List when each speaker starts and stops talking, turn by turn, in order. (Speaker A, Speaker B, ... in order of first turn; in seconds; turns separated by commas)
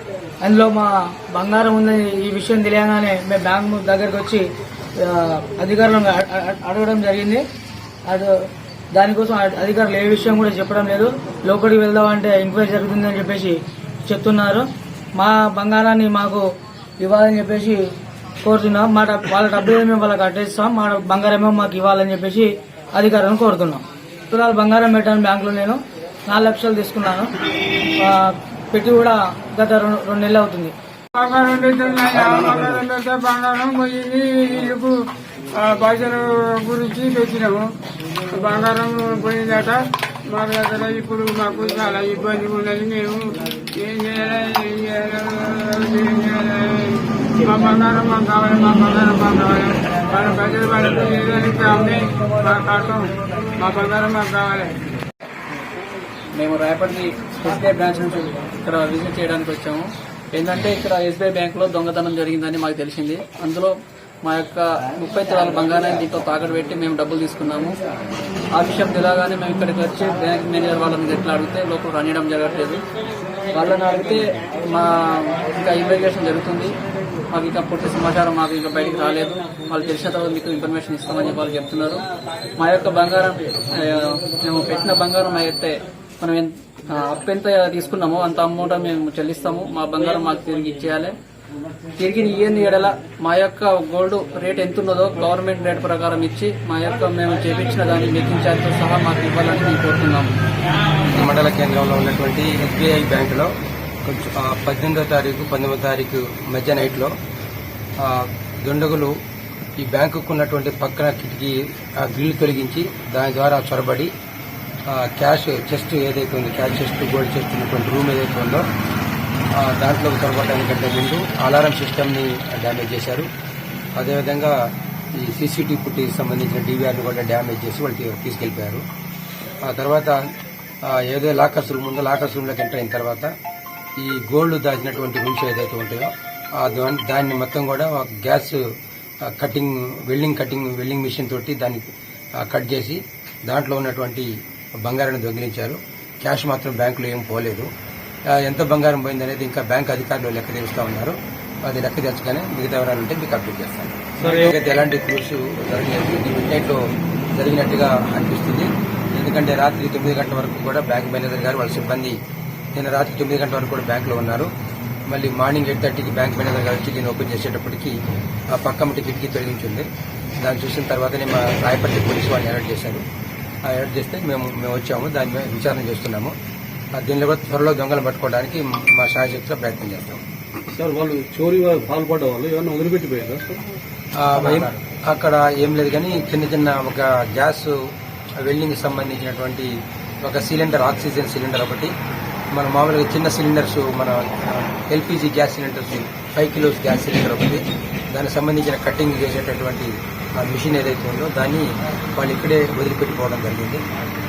Speaker A: 0.4-4.4, Speaker A: 5.0-7.4, Speaker A: 8.9-13.6, Speaker A: 14.1-14.7, Speaker A: 15.2-16.4, Speaker A: 17.0-17.8, Speaker A: 18.4-27.3, Speaker A: 28.0-30.7, Speaker B: 31.1-34.9, Speaker B: 35.5-37.7, Speaker B: 38.3-54.7, Speaker C: 56.3-67.7, Speaker C: 68.5-72.8, Speaker C: 73.5-76.8, Speaker C: 77.3-82.0, Speaker C: 82.6-91.1, Speaker C: 92.0-100.3, Speaker D: 101.1-103.5, Speaker D: 104.0-107.1, Speaker D: 108.0-109.1, Speaker D: 109.8-114.1, Speaker D: 114.9-118.6, Speaker D: 119.6-123.3, Speaker D: 124.0-124.5, Speaker D: 125.2-128.8, Speaker D: 129.6-130.2, Speaker D: 130.8-133.3, Speaker D: 134.0-138.6, Speaker D: 139.2-141.8, Speaker D: 142.4-144.3, Speaker D: 144.8-147.7, Speaker D: 148.3-156.8, Speaker E: 154.2-154.5, Speaker D: 157.4-162.2, Speaker D: 162.7-164.5, Speaker D: 165.1-167.9, Speaker D: 168.5-169.9, Speaker D: 170.4-173.0, Speaker D: 173.7-176.3, Speaker D: 177.0-180.2, Speaker E: 180.7-183.7, Speaker D: 184.2-187.7, Speaker E: 184.4-184.7, Speaker D: 188.4-189.7, Speaker D: 190.2-191.9, Speaker D: 192.5-203.8